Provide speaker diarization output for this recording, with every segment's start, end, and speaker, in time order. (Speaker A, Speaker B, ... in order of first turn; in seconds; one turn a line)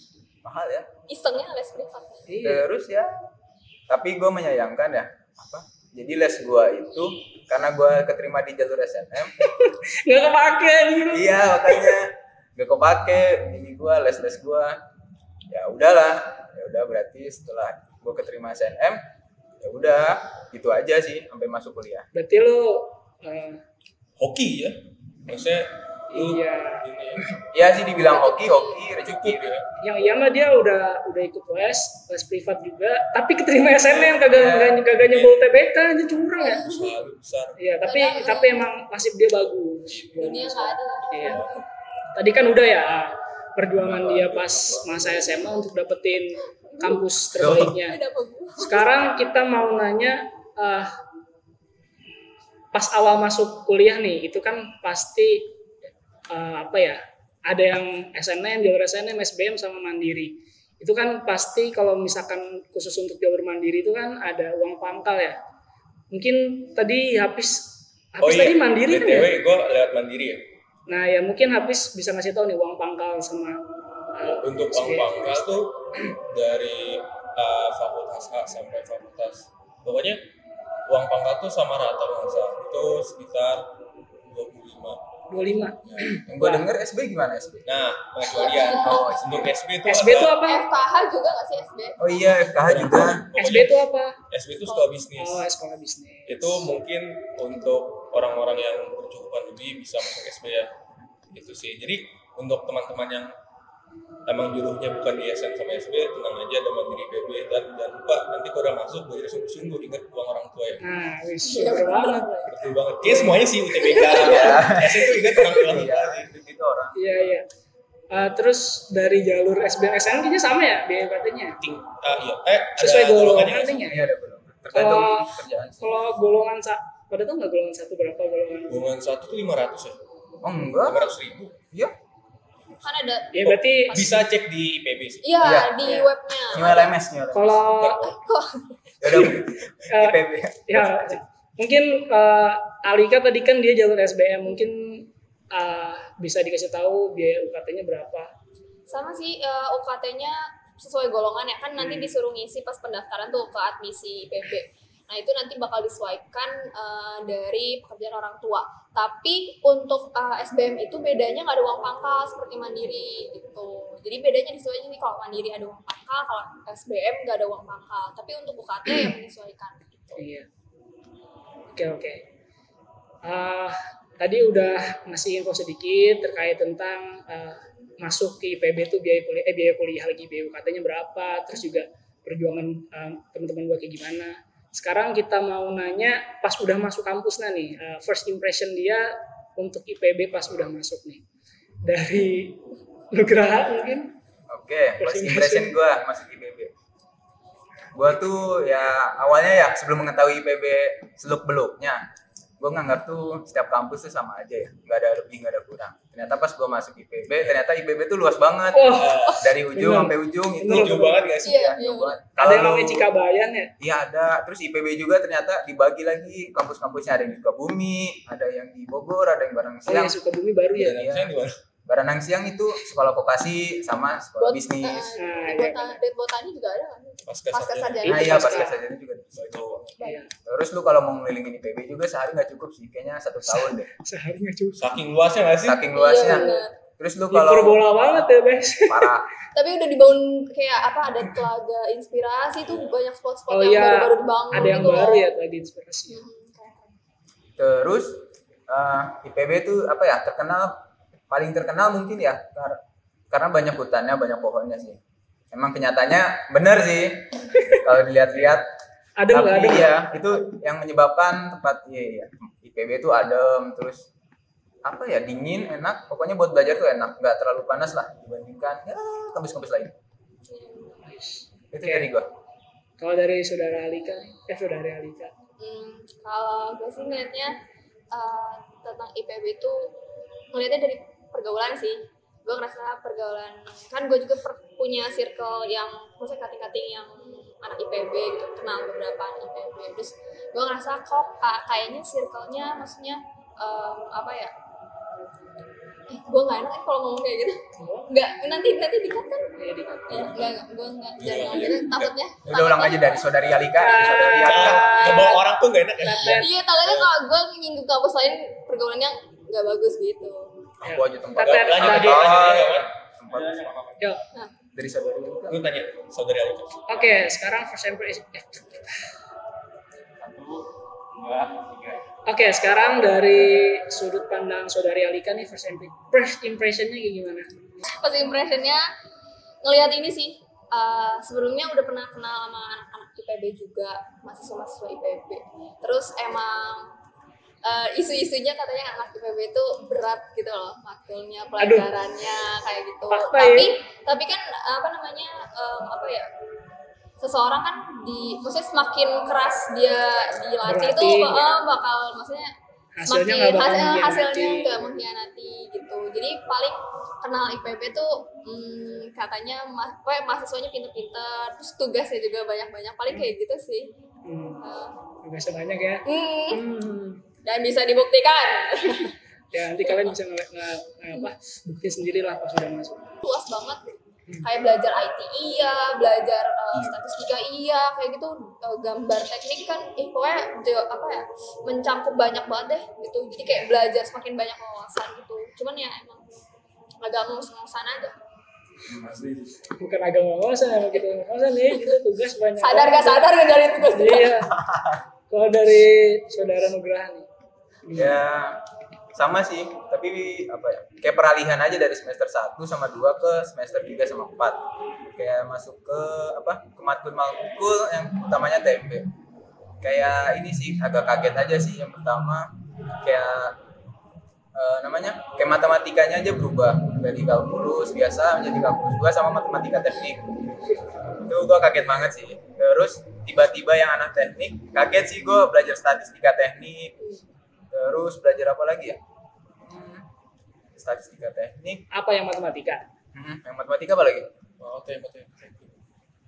Speaker A: 0.5-0.9
Speaker B: 1.1-2.3
Speaker C: 2.3-2.7
Speaker A: 2.4-3.1
Speaker A: 3.9-9.3
Speaker C: 9.4-11.9
Speaker A: 11.1-14.8
Speaker A: 15.5-19.0
Speaker A: 19.6-22.1
Speaker C: 22.1-23.6
Speaker D: 24.2-27.4
Speaker C: 26.1-26.9
Speaker A: 27.5-29.6
Speaker B: 28.0-28.8
Speaker D: 29.0-29.7
Speaker C: 29.8-36.7
Speaker D: 33.9-34.3
Speaker A: 34.3-34.8
Speaker D: 34.9-35.5
Speaker B: 36.4-36.9
Speaker D: 36.6-37.6
Speaker C: 37.6-41.4
Speaker B: 37.8-38.6
Speaker D: 39.9-40.5
Speaker B: 40.2-41.6
Speaker D: 41.1-41.6
Speaker C: 42.1-48.0
Speaker D: 43.8-45.5
Speaker B: 46.7-47.0
Speaker A: 47.4-47.8
Speaker B: 47.7-49.0
Speaker C: 48.6-50.9
Speaker C: 52.7-55.6
Speaker C: 56.3-65.4
Speaker C: 66.1-69.3
Speaker D: 68.2-70.5
Speaker C: 70.9-73.6
Speaker C: 74.2-75.7
Speaker D: 74.4-80.2
Speaker D: 80.9-83.7
Speaker D: 84.3-85.0
Speaker C: 85.3-86.7
Speaker D: 85.9-86.2
Speaker A: 86.3-87.6
Speaker D: 87.7-90.4
Speaker B: 88.3-89.1
Speaker A: 88.8-89.5
Speaker C: 89.8-90.7
Speaker B: 90.4-92.4
Speaker A: 92.0-93.3
Speaker D: 92.6-93.8
Speaker C: 93.4-94.2
Speaker D: 94.3-95.5
Speaker C: 95.2-96.7
Speaker D: 96.3-100.7
Speaker D: 101.3-103.3
Speaker D: 104.3-110.8
Speaker C: 110.8-112.4
Speaker B: 111.5-112.5
Speaker D: 112.5-116.3
Speaker C: 113.0-114.2
Speaker B: 113.8-114.6
Speaker A: 114.1-117.0
Speaker C: 117.0-117.5
Speaker C: 118.1-121.6
Speaker D: 121.6-123.9
Speaker C: 122.8-124.1
Speaker A: 123.9-126.0
Speaker C: 124.7-128.8
Speaker D: 128.7-130.0
Speaker A: 130.4-131.1
Speaker D: 130.8-131.6
Speaker B: 132.8-134.1
Speaker C: 133.3-134.2
Speaker D: 133.4-135.3
Speaker B: 135.2-136.9
Speaker A: 135.4-135.8
Speaker C: 135.8-136.1
Speaker A: 136.5-137.7
Speaker C: 137.3-138.1
Speaker D: 137.7-138.2
Speaker B: 138.0-138.8
Speaker A: 139.0-141.2
Speaker C: 139.1-139.4
Speaker C: 139.9-148.3
Speaker B: 148.9-170.2
Speaker C: 151.8-152.2
Speaker C: 170.2-170.5
Speaker C: 171.7-172.2
Speaker C: 173.2-191.2
Speaker C: 191.8-194.1
Speaker A: 194.5-196.7
Speaker C: 195.0-195.8
Speaker A: 197.9-202.0
Speaker A: 202.6-213.1
Speaker C: 208.7-211.3
Speaker D: 208.9-209.6
Speaker D: 210.7-211.8
Speaker B: 211.4-212.2
Speaker C: 212.4-213.7
Speaker A: 213.8-220.2
Speaker C: 219.9-221.1
Speaker D: 220.8-221.6
Speaker A: 220.8-221.3
Speaker A: 221.9-225.2
Speaker B: 224.4-228.8
Speaker C: 225.2-226.0
Speaker D: 227.3-228.3
Speaker A: 228.0-229.8
Speaker C: 228.1-228.8
Speaker D: 229.3-230.0
Speaker C: 230.0-230.3
Speaker A: 230.4-233.9
Speaker C: 233.5-234.9
Speaker D: 234.8-235.9
Speaker A: 235.6-237.9
Speaker B: 235.9-236.7
Speaker C: 236.2-236.6
Speaker C: 237.3-239.1
Speaker A: 238.8-239.3
Speaker B: 239.5-245.3
Speaker D: 242.6-242.9
Speaker C: 243.5-246.2
Speaker B: 246.1-246.9
Speaker A: 247.6-255.0
Speaker A: 255.5-258.7
Speaker C: 259.2-260.1
Speaker A: 259.3-264.1
Speaker A: 264.8-269.9
Speaker B: 270.5-271.0
Speaker C: 271.0-272.1
Speaker A: 271.7-272.3
Speaker C: 273.0-275.3
Speaker B: 275.6-277.6
Speaker B: 278.1-280.0
Speaker B: 280.5-294.5
Speaker B: 296.1-299.5
Speaker C: 297.8-298.1
Speaker C: 299.6-300.4
Speaker B: 300.1-303.3
Speaker D: 301.2-302.1
Speaker A: 302.5-305.0
Speaker C: 303.8-305.4
Speaker D: 304.3-307.1
Speaker C: 306.0-306.5
Speaker B: 306.1-310.6
Speaker A: 310.8-313.7
Speaker C: 310.8-312.3
Speaker D: 311.4-314.0
Speaker A: 314.8-315.6
Speaker D: 315.5-317.1
Speaker C: 316.9-319.1
Speaker D: 320.2-320.6
Speaker D: 321.2-322.0
Speaker C: 322.3-327.5
Speaker B: 327.9-328.9
Speaker B: 329.6-336.9
Speaker B: 337.6-346.3
Speaker C: 341.6-341.9
Speaker C: 343.1-343.7
Speaker B: 347.2-352.5
Speaker C: 350.6-351.6
Speaker C: 353.0-354.7
Speaker B: 353.1-363.9
Speaker C: 364.2-364.6
Speaker B: 364.6-365.0
Speaker C: 365.2-367.2
Speaker B: 366.1-366.6
Speaker B: 367.4-369.1
Speaker C: 369.5-373.2
Speaker B: 369.8-370.1
Speaker B: 373.2-386.4
Speaker B: 387.0-388.2
Speaker A: 388.9-389.3
Speaker C: 389.6-393.3
Speaker B: 392.6-394.4
Speaker C: 393.9-394.5
Speaker A: 394.5-395.0
Speaker C: 395.3-397.3
Speaker C: 397.9-398.2
Speaker A: 397.9-398.6
Speaker A: 399.1-404.6
Speaker A: 405.2-409.1
Speaker A: 409.8-412.5
Speaker A: 413.0-413.6
Speaker A: 414.6-420.2
Speaker A: 421.2-427.0
Speaker A: 427.7-429.0
Speaker A: 429.6-430.1
Speaker A: 430.8-431.9
Speaker C: 431.9-432.9
Speaker A: 433.1-434.3
Speaker D: 434.6-435.8